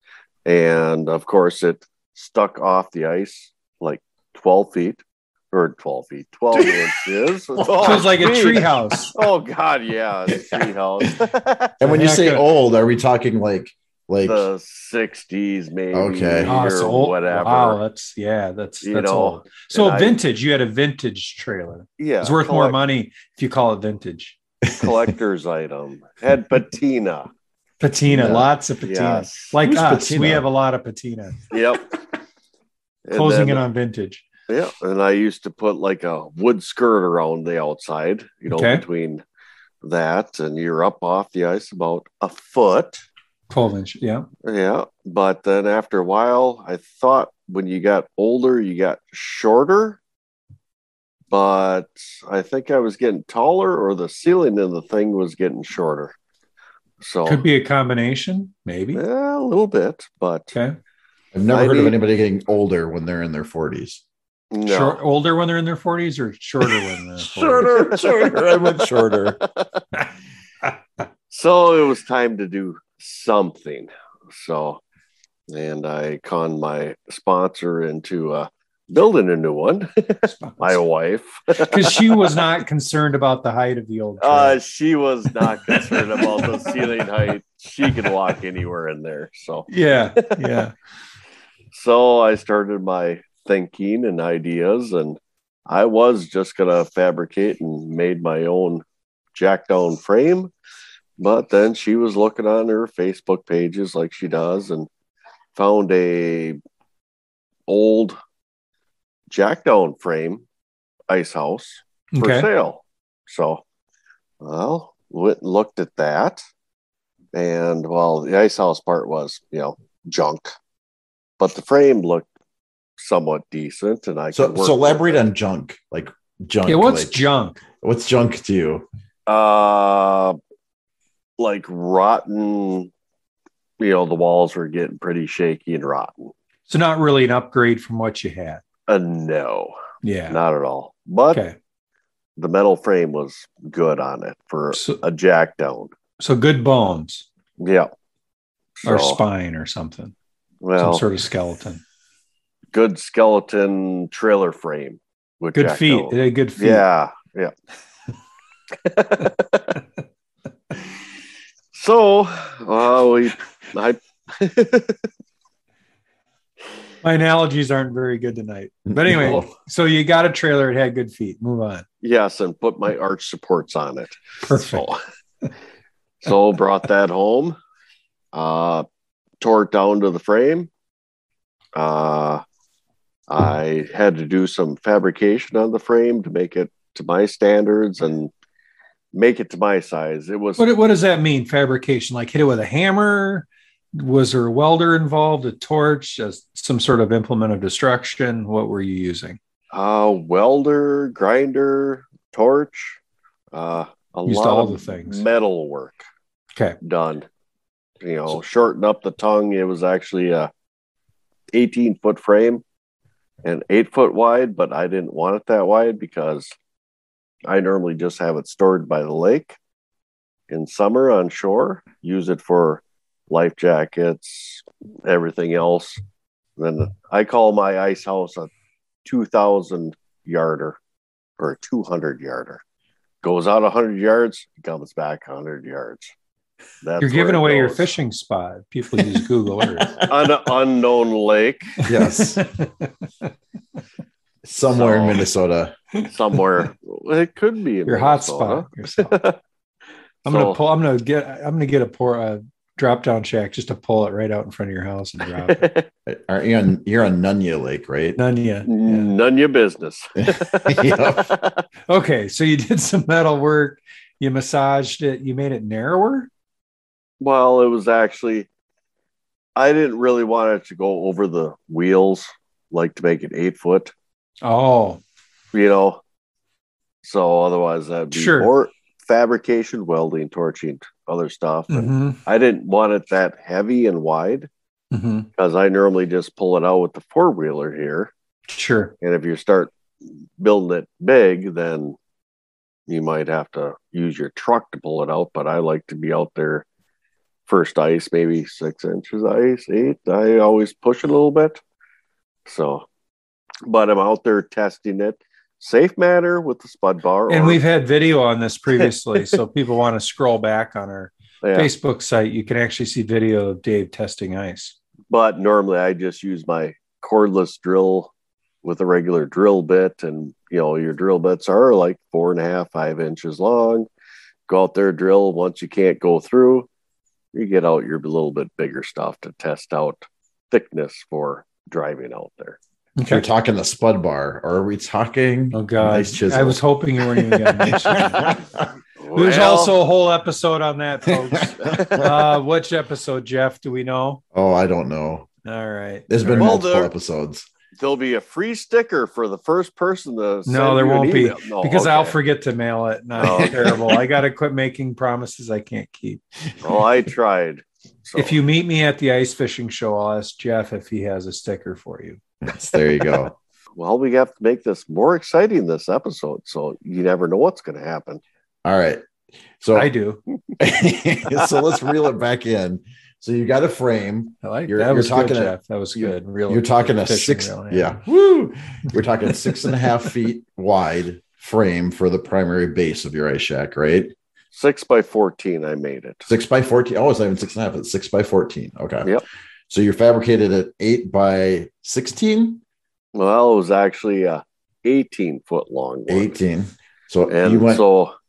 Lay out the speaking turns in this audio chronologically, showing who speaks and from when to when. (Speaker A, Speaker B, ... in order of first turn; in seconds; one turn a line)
Speaker A: 0.4-11.7
Speaker B: 6.5-8.6
Speaker C: 7.8-9.2
Speaker B: 10.3-10.6
Speaker B: 11.8-14.5
Speaker C: 11.8-12.5
Speaker A: 14.2-17.8
Speaker B: 15.9-16.5
Speaker C: 16.4-24.4
Speaker A: 18.8-20.2
Speaker A: 22.0-22.8
Speaker B: 24.6-24.9
Speaker A: 24.7-27.3
Speaker C: 27.8-31.4
Speaker B: 28.1-28.5
Speaker A: 28.8-29.5
Speaker B: 29.6-30.5
Speaker A: 31.5-31.9
Speaker A: 33.0-33.6
Speaker C: 33.1-34.2
Speaker A: 34.5-39.2
Speaker C: 38.5-38.8
Speaker A: 39.8-43.0
Speaker C: 43.5-44.2
Speaker A: 44.4-50.0
Speaker A: 51.3-56.1
Speaker A: 57.0-57.4
Speaker C: 57.2-59.0
Speaker A: 58.9-60.5
Speaker B: 61.3-64.0
Speaker A: 61.5-62.0
Speaker A: 64.5-65.0
Speaker C: 64.6-67.7
Speaker B: 67.2-69.4
Speaker A: 67.6-69.7
Speaker A: 71.3-74.8
Speaker A: 75.5-82.5
Speaker C: 80.2-80.8
Speaker C: 81.5-84.6
Speaker A: 84.2-89.7
Speaker C: 85.5-86.4
Speaker C: 89.7-90.7
Speaker A: 90.2-90.5
Speaker A: 91.7-100.5
Speaker A: 101.2-104.9
Speaker A: 105.5-106.6
Speaker A: 107.7-108.2
Speaker A: 109.3-110.4
Speaker A: 111.1-113.6
Speaker C: 112.1-112.5
Speaker A: 114.4-116.4
Speaker A: 117.3-120.5
Speaker A: 121.4-122.3
Speaker A: 123.0-125.2
Speaker B: 124.3-127.3
Speaker C: 126.7-127.6
Speaker B: 127.8-128.9
Speaker A: 129.3-130.4
Speaker A: 131.4-132.9
Speaker A: 133.8-136.3
Speaker C: 136.7-138.6
Speaker A: 138.9-139.7
Speaker C: 140.0-140.4
Speaker A: 140.3-141.4
Speaker C: 141.3-141.6
Speaker A: 142.4-145.9
Speaker C: 144.7-145.0
Speaker C: 146.2-147.3
Speaker A: 147.6-147.9
Speaker A: 148.8-149.2
Speaker C: 148.8-150.1
Speaker A: 150.6-151.1
Speaker C: 150.8-151.8
Speaker A: 152.7-157.5
Speaker C: 155.5-156.8
Speaker A: 158.8-159.7
Speaker A: 161.7-165.0
Speaker C: 167.0-171.8
Speaker B: 168.9-169.5
Speaker A: 172.0-175.0
Speaker C: 174.5-174.8
Speaker A: 176.2-177.6
Speaker A: 178.3-178.8
Speaker A: 179.4-180.7
Speaker A: 181.7-182.4
Speaker A: 183.3-188.3
Speaker A: 189.1-190.6
Speaker C: 190.6-199.4
Speaker A: 199.7-203.0
Speaker A: 203.5-206.0
Speaker C: 204.2-205.2
Speaker A: 206.8-207.3
Speaker A: 208.0-210.5
Speaker A: 211.5-212.6
Speaker A: 213.4-216.5
Speaker A: 217.4-219.6
Speaker A: 220.5-226.0
Speaker A: 226.6-228.5
Speaker A: 229.0-230.8
Speaker A: 231.4-232.6
Speaker A: 233.2-236.1
Speaker A: 236.8-237.9
Speaker C: 237.0-239.9
Speaker B: 239.8-240.3
Speaker A: 240.1-241.7
Speaker B: 241.8-242.4
Speaker C: 241.9-242.9
Speaker B: 244.4-245.8
Speaker A: 244.7-245.2
Speaker A: 246.1-249.4
Speaker C: 247.8-249.2
Speaker A: 250.2-250.6
Speaker C: 250.2-255.6
Speaker A: 255.4-255.9
Speaker B: 256.1-258.2
Speaker C: 258.1-259.1
Speaker A: 258.6-261.6
Speaker B: 260.3-261.3
Speaker C: 261.9-266.3
Speaker A: 267.2-268.5
Speaker A: 269.6-273.9
Speaker C: 274.4-275.0
Speaker A: 275.5-276.0
Speaker A: 277.0-284.5
Speaker C: 278.1-278.5
Speaker C: 281.7-282.2
Speaker C: 284.9-285.3
Speaker A: 285.4-288.1
Speaker C: 288.5-288.9
Speaker A: 289.0-289.7
Speaker A: 290.4-292.0
Speaker A: 292.9-296.6
Speaker A: 297.4-301.6
Speaker A: 302.4-302.9
Speaker A: 303.6-307.6
Speaker C: 307.3-314.8
Speaker A: 311.4-311.7
Speaker A: 315.1-318.1
Speaker A: 318.6-323.9
Speaker A: 324.5-326.7
Speaker A: 327.3-332.6
Speaker C: 333.0-333.2
Speaker B: 333.1-338.5
Speaker C: 335.5-338.4
Speaker A: 339.0-339.8
Speaker C: 339.1-344.2
Speaker A: 341.6-342.2
Speaker B: 341.7-342.0
Speaker B: 344.3-345.3
Speaker C: 345.4-346.5
Speaker B: 346.1-347.5
Speaker A: 346.3-346.9
Speaker A: 347.7-352.1
Speaker C: 350.4-356.2
Speaker A: 353.2-353.9
Speaker A: 356.6-358.4
Speaker C: 358.1-362.2
Speaker B: 362.4-363.3
Speaker A: 363.8-368.2
Speaker B: 368.6-369.9
Speaker C: 369.7-370.2
Speaker B: 370.6-384.1
Speaker C: 374.4-377.9
Speaker A: 384.5-386.3
Speaker B: 386.3-389.1
Speaker B: 389.7-392.6
Speaker A: 393.1-396.4
Speaker B: 396.1-397.8
Speaker A: 397.3-398.1